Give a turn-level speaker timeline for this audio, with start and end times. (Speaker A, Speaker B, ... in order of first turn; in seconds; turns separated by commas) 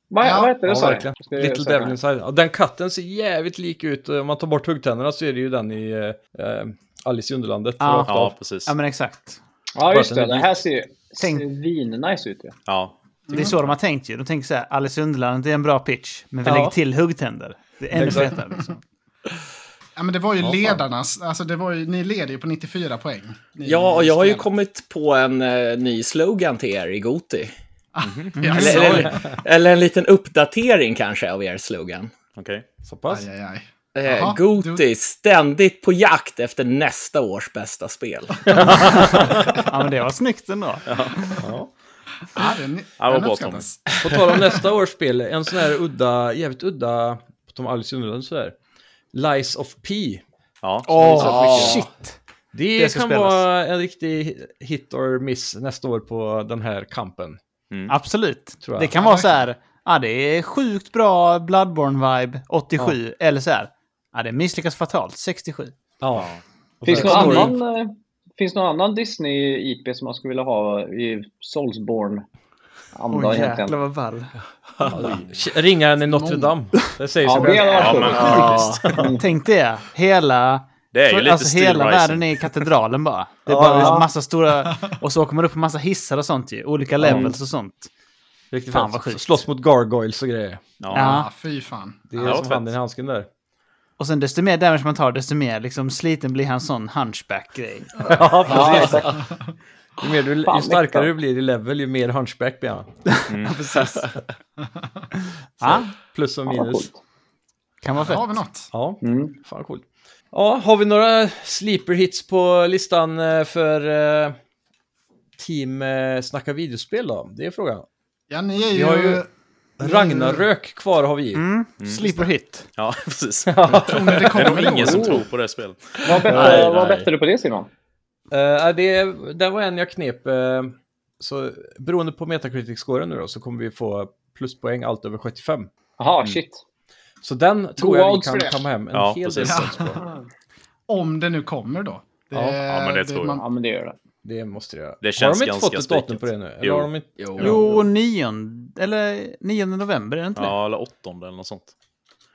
Speaker A: 0.1-1.9, Speaker B: 0.2-0.5, Speaker C: 0.7-8.3, Speaker D: 7.8-8.1, Speaker E: 8.1-8.7, Speaker D: 8.7-9.4, Speaker A: 9.7-12.6, Speaker C: 9.9-10.6, Speaker D: 11.2-11.4, Speaker E: 12.7-13.7, Speaker D: 13.3-18.8, Speaker C: 16.4-16.7, Speaker C: 17.9-18.4, Speaker B: 20.0-24.5, Speaker C: 20.4-20.8, Speaker F: 23.6-27.5, Speaker B: 27.9-29.2, Speaker E: 28.0-28.4, Speaker D: 28.4-28.9, Speaker F: 28.5-32.1, Speaker C: 28.6-29.2, Speaker E: 32.4-32.6, Speaker C: 32.8-33.2, Speaker B: 33.1-34.8, Speaker F: 33.9-38.9, Speaker C: 38.6-39.4, Speaker D: 38.6-41.4, Speaker E: 40.9-41.5, Speaker C: 41.4-41.7, Speaker B: 42.3-44.6, Speaker E: 43.0-43.7, Speaker C: 44.0-48.5, Speaker C: 49.1-50.2, Speaker E: 50.6-51.5, Speaker D: 50.9-52.2, Speaker C: 51.0-51.8, Speaker F: 51.1-51.9, Speaker C: 52.5-57.4, Speaker D: 52.7-53.4, Speaker D: 57.9-65.7, Speaker C: 58.6-58.9, Speaker B: 59.0-59.4, Speaker C: 66.0-66.3, Speaker E: 66.2-66.4, Speaker C: 66.8-67.5, Speaker A: 66.8-72.2, Speaker D: 67.2-67.5, Speaker A: 72.9-73.8, Speaker D: 73.1-74.3, Speaker C: 74.9-79.2, Speaker E: 74.9-75.3, Speaker B: 76.1-76.5, Speaker A: 77.2-79.3, Speaker E: 77.4-78.8, Speaker F: 78.1-78.8, Speaker D: 79.2-87.9, Speaker E: 80.9-82.7, Speaker C: 83.5-84.0, Speaker A: 83.8-84.1, Speaker C: 87.0-87.3, Speaker C: 88.5-90.7, Speaker D: 88.7-89.4, Speaker E: 90.8-91.2, Speaker D: 90.9-91.3, Speaker B: 90.9-92.3, Speaker C: 92.1-93.3, Speaker E: 92.2-92.7, Speaker D: 94.0-98.2, Speaker C: 98.1-99.1, Speaker A: 98.5-99.2, Speaker C: 100.0-103.0, Speaker A: 100.4-101.1, Speaker D: 103.1-104.1, Speaker E: 103.3-103.6, Speaker C: 105.6-106.9, Speaker D: 105.6-105.9, Speaker A: 106.5-107.0, Speaker D: 107.8-108.3, Speaker B: 108.0-108.7, Speaker C: 108.7-114.4, Speaker A: 109.0-109.3, Speaker C: 115.4-117.9, Speaker B: 118.3-119.3, Speaker C: 118.7-119.2, Speaker C: 119.8-121.4, Speaker B: 119.8-120.4, Speaker D: 121.3-122.7, Speaker E: 122.8-126.7, Speaker C: 123.5-124.6, Speaker B: 123.8-125.3, Speaker A: 126.0-127.7, Speaker C: 126.3-126.9, Speaker F: 126.3-127.0, Speaker C: 128.3-135.7, Speaker A: 136.0-136.6, Speaker C: 137.2-140.0, Speaker A: 137.8-138.6, Speaker E: 138.9-139.7, Speaker B: 139.4-140.0, Speaker B: 140.9-143.4, Speaker C: 142.3-142.6, Speaker E: 142.7-143.4, Speaker A: 143.4-143.9, Speaker C: 144.2-147.8, Speaker E: 145.0-146.9, Speaker F: 147.2-147.6, Speaker D: 147.4-150.5, Speaker E: 150.3-151.7